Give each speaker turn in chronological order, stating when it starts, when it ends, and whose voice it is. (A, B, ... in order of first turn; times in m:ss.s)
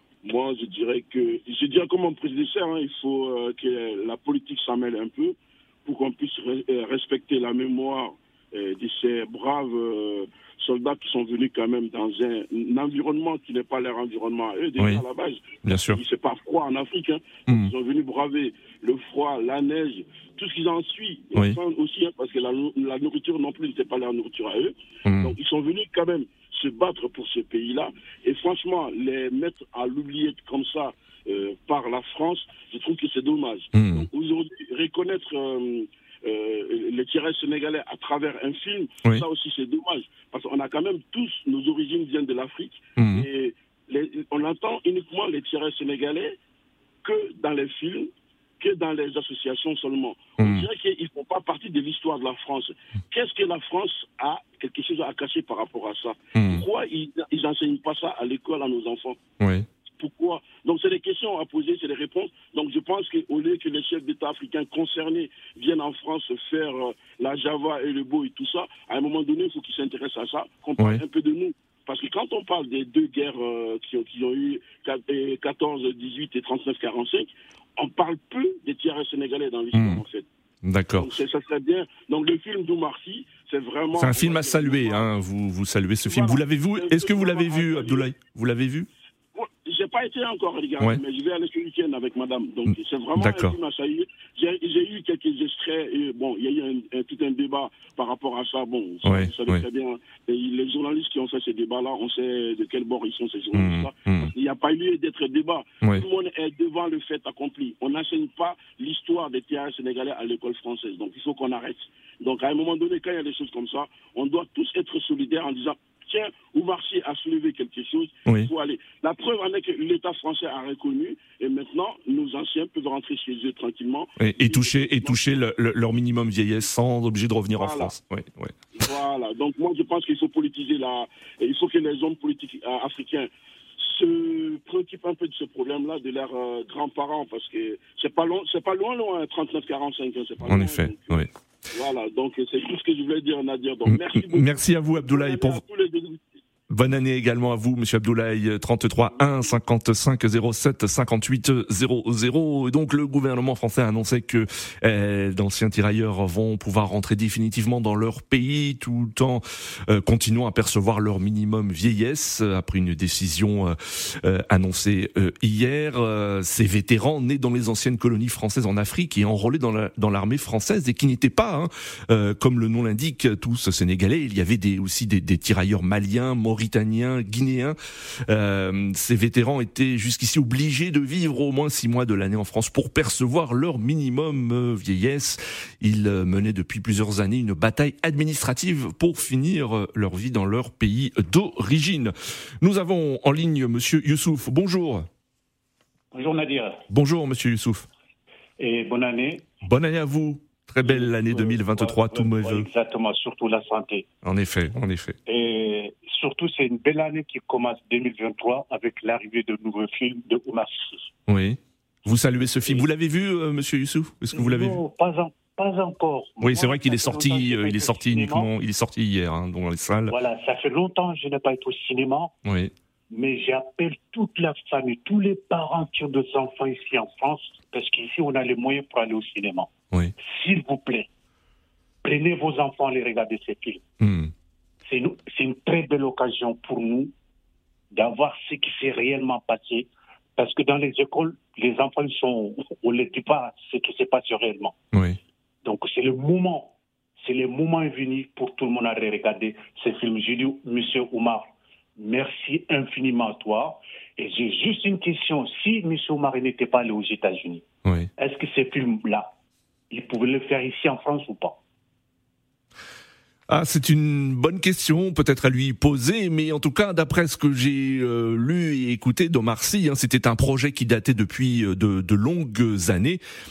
0:00.2-0:46.4 A
0:14.8-0:15.0 B
0:15.6-0:16.0 B
0:17.5-0:17.7 B
0:25.1-0:25.4 B
0:33.7-0:34.1 B
0:43.0-0:43.3 B
0:47.0-0:59.2 A
0:50.4-0:50.7 B
0:56.4-0:56.6 B
0:59.4-0:59.7 B
1:00.0-1:20.3 A
1:19.7-1:20.0 B
1:20.6-1:21.1 B
1:21.0-1:25.1 A
1:24.0-1:28.9 B
1:26.0-1:28.1 A
1:29.4-2:05.4 A
1:32.7-1:33.6 B
1:39.0-1:39.7 B
1:43.5-1:44.3 B
1:58.3-1:58.5 B
2:04.2-2:08.9 B
2:07.6-2:07.9 A
2:08.8-2:26.2 A
2:20.4-2:21.3 B
2:23.8-2:25.6 B
2:26.7-2:57.8 B
2:29.1-2:29.5 A
2:58.3-3:15.1 B
3:16.1-3:16.8 C
3:16.9-3:17.9 B
3:18.6-3:19.5 C
3:19.6-3:22.7 B
3:20.8-3:24.1 C
3:24.2-3:25.2 B
3:25.3-3:31.1 C
3:31.3-3:34.8 B
3:34.3-3:38.5 C
3:36.4-3:40.2 B
3:40.1-3:42.3 C
3:42.4-3:42.7 B
3:43.1-3:51.1 C
3:52.0-3:53.8 C
3:54.0-3:54.3 B
3:54.8-3:57.1 C
3:57.9-4:04.8 C
4:04.9-4:05.2 B
4:05.6-4:17.6 C
4:18.2-4:19.3 C
4:19.9-4:21.6 C
4:23.5-4:33.2 B